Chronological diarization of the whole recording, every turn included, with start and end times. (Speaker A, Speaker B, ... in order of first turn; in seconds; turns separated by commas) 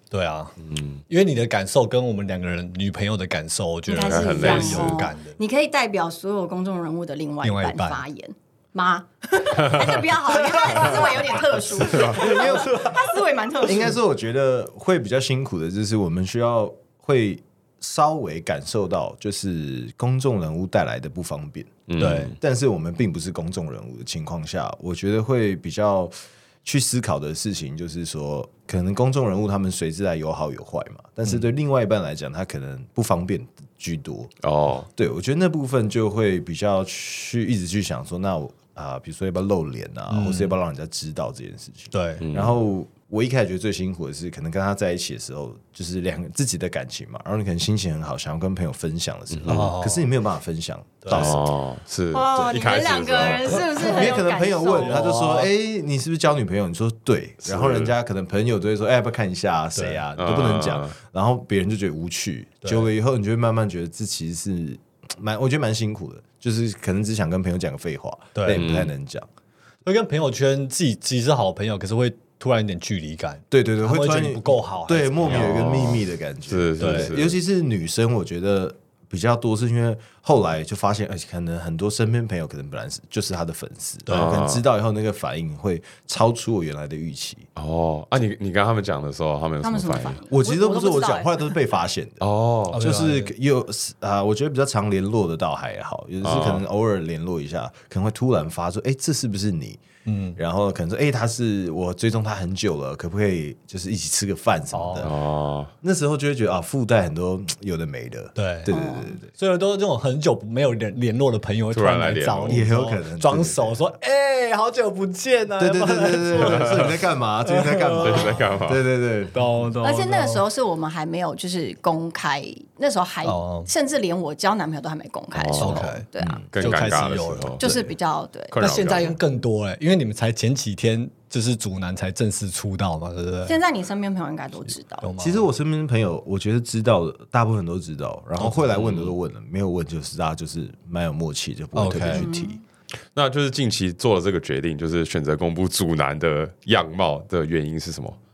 Speaker A: 0.1-0.6, Speaker B: 0.7-1.0, Speaker A: 1.1-5.4, Speaker C: 3.9-14.0, Speaker B: 4.0-5.1, Speaker A: 7.4-8.0, Speaker A: 10.6-11.3, Speaker B: 11.8-12.5, Speaker A: 11.9-13.0, Speaker D: 12.2-12.8, Speaker D: 13.6-34.3, Speaker B: 21.9-22.4, Speaker A: 22.0-22.4, Speaker B: 34.4-34.9, Speaker D: 35.0-51.5, Speaker A: 40.1-40.5, Speaker A: 41.9-42.2, Speaker B: 42.2-42.6, Speaker B: 49.3-49.7, Speaker A: 49.5-50.1, Speaker A: 51.0-51.4, Speaker B: 51.1-53.6, Speaker C: 52.1-55.1, Speaker D: 53.2-69.3, Speaker A: 53.5-54.2, Speaker A: 54.7-55.5, Speaker B: 57.5-57.9, Speaker A: 59.8-60.0, Speaker B: 60.2-60.9, Speaker A: 68.3-68.7, Speaker B: 68.5-68.9, Speaker A: 69.8-75.7, Speaker D: 73.5-87.5, Speaker B: 75.2-77.4, Speaker A: 76.8-77.2, Speaker B: 84.1-84.6, Speaker B: 87.6-90.2, Speaker C: 89.6-91.6, Speaker D: 90.3-92.2, Speaker B: 92.2-92.8, Speaker A: 92.7-93.3, Speaker D: 92.7-99.8, Speaker B: 96.2-96.6, Speaker A: 100.1-100.4, Speaker D: 100.4-105.1, Speaker A: 104.7-105.1, Speaker B: 105.0-105.7, Speaker D: 105.8-109.3, Speaker A: 108.4-108.7, Speaker C: 108.7-109.2, Speaker A: 109.4-117.0, Speaker B: 111.7-112.7, Speaker D: 112.5-113.8, Speaker D: 115.6-119.5, Speaker B: 116.4-116.7, Speaker A: 117.5-118.4, Speaker B: 118.0-118.8, Speaker A: 119.3-120.4, Speaker C: 119.8-126.4, Speaker A: 123.2-123.7, Speaker B: 125.3-126.0, Speaker A: 125.6-126.1, Speaker D: 126.2-126.5, Speaker B: 126.5-127.7, Speaker A: 126.6-127.8, Speaker C: 127.6-128.6, Speaker B: 128.5-129.2, Speaker A: 128.6-133.6, Speaker C: 133.5-135.1, Speaker A: 135.0-135.5, Speaker D: 135.2-142.6, Speaker B: 138.7-139.2, Speaker A: 141.8-142.3, Speaker C: 142.1-142.6, Speaker B: 143.2-148.2